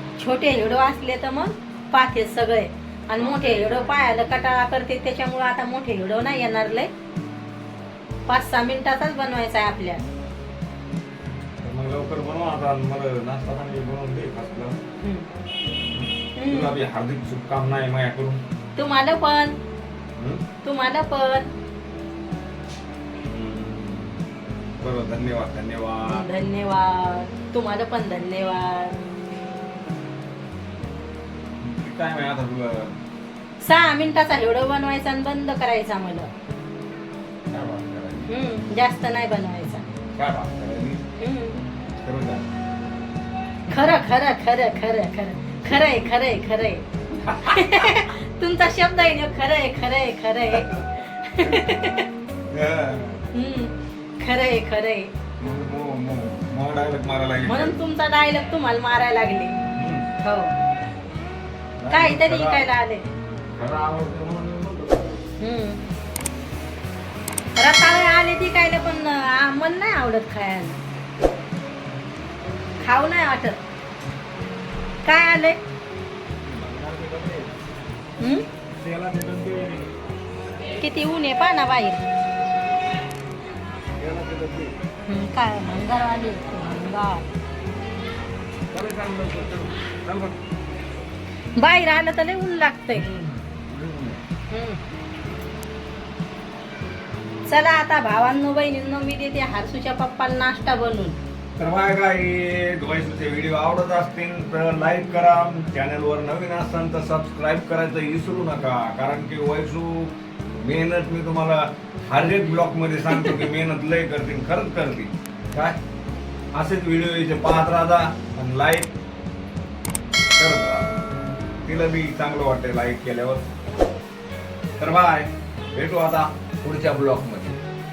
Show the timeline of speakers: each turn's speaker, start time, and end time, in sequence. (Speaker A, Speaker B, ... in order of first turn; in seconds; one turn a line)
Speaker A: 0.2-6.9
Speaker B: 3.1-4.0
Speaker A: 8.3-10.0
Speaker B: 11.6-14.8
Speaker A: 15.0-15.3
Speaker B: 15.9-18.4
Speaker A: 16.3-16.7
Speaker A: 18.8-19.5
Speaker B: 20.2-20.4
Speaker A: 20.6-21.5
Speaker B: 23.2-24.2
Speaker B: 24.8-26.3
Speaker A: 26.1-29.0
Speaker B: 31.6-33.0
Speaker A: 33.6-36.3
Speaker B: 37.5-38.3
Speaker A: 38.3-39.8
Speaker B: 40.1-41.0
Speaker A: 41.2-41.6
Speaker B: 42.0-42.5
Speaker B: 43.7-43.9
Speaker A: 43.7-46.8
Speaker B: 47.1-48.0
Speaker A: 47.4-52.0
Speaker B: 50.5-50.8
Speaker B: 51.4-51.9
Speaker B: 52.5-53.2
Speaker A: 53.3-55.1
Speaker B: 55.4-57.8
Speaker A: 57.4-59.6
Speaker B: 59.7-60.1
Speaker A: 60.2-60.5
Speaker B: 61.8-62.6
Speaker A: 61.9-63.0
Speaker B: 63.5-65.2
Speaker A: 65.4-65.8
Speaker A: 67.6-70.8
Speaker A: 72.8-73.6
Speaker A: 75.0-75.6
Speaker B: 76.4-77.5
Speaker A: 78.2-78.5
Speaker B: 78.8-79.9
Speaker A: 80.7-82.0
Speaker B: 84.0-84.8
Speaker A: 85.1-87.2
Speaker B: 88.7-90.4
Speaker A: 91.5-93.0
Speaker B: 92.9-94.2
Speaker A: 94.5-94.8
Speaker A: 97.5-101.2
Speaker B: 101.6-115.8
Speaker A: 113.1-113.4
Speaker B: 116.5-118.9
Speaker B: 120.3-120.9
Speaker B: 121.6-123.4
Speaker B: 124.8-127.6